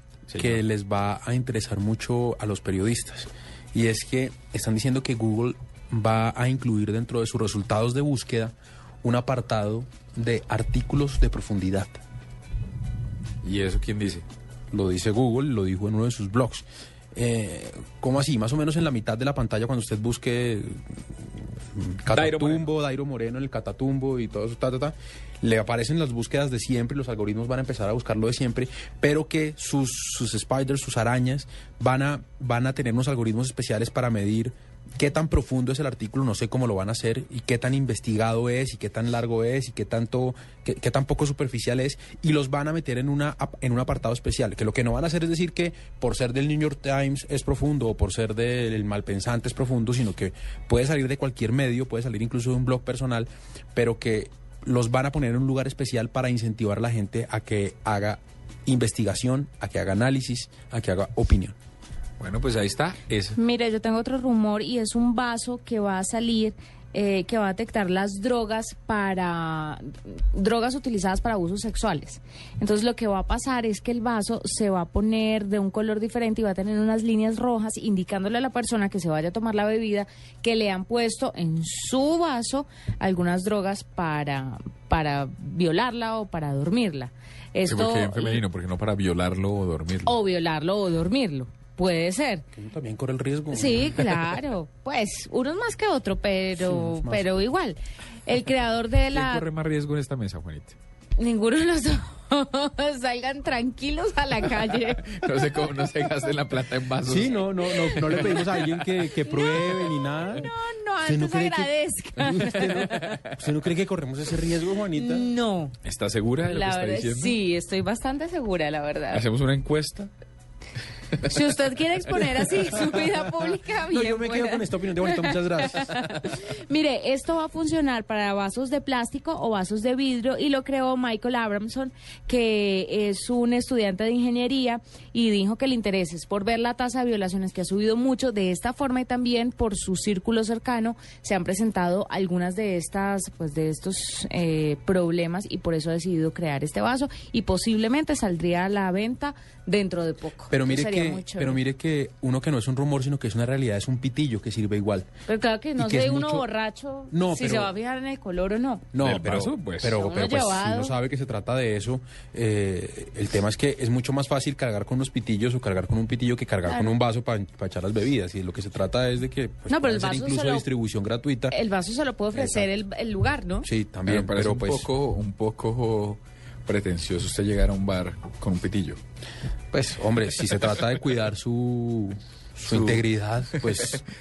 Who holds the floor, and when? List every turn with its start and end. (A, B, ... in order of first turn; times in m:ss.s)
0:00.3-0:00.6 A
0:00.4-0:12.0 B
0:13.4-0:14.2 A
0:14.7-0:20.8 B
0:21.8-1:01.6 B
0:22.1-0:22.6 A
1:02.2-1:03.4 A
1:03.4-1:28.4 C
1:27.7-1:30.1 A
1:30.1-1:32.4 C
1:32.6-1:34.2 B
1:33.5-1:39.5 C
1:36.6-1:37.5 B
1:39.1-1:40.8 A
1:41.2-1:45.2 C
1:44.9-1:48.5 A
1:47.0-1:50.5 B
1:49.3-1:53.2 C
1:51.0-1:55.3 B
1:54.9-1:55.8 C
1:55.8-1:57.4 A
1:56.5-1:59.3 C
1:59.1-2:00.1 A
2:01.2-2:31.6 C
2:03.9-2:06.3 B
2:30.5-2:35.1 B
2:35.3-2:38.9 C
2:35.8-2:36.5 B
2:37.1-2:37.7 B
2:38.9-2:51.6 B
2:39.0-2:39.9 A
2:39.9-2:41.0 C
2:46.7-2:46.9 C
2:49.7-2:50.7 C
2:51.5-2:53.7 C
2:52.3-2:52.7 B
2:53.6-2:54.9 B
2:54.1-2:59.0 A
2:59.7-3:04.0 B
3:02.6-3:03.0 A
3:03.6-3:04.0 A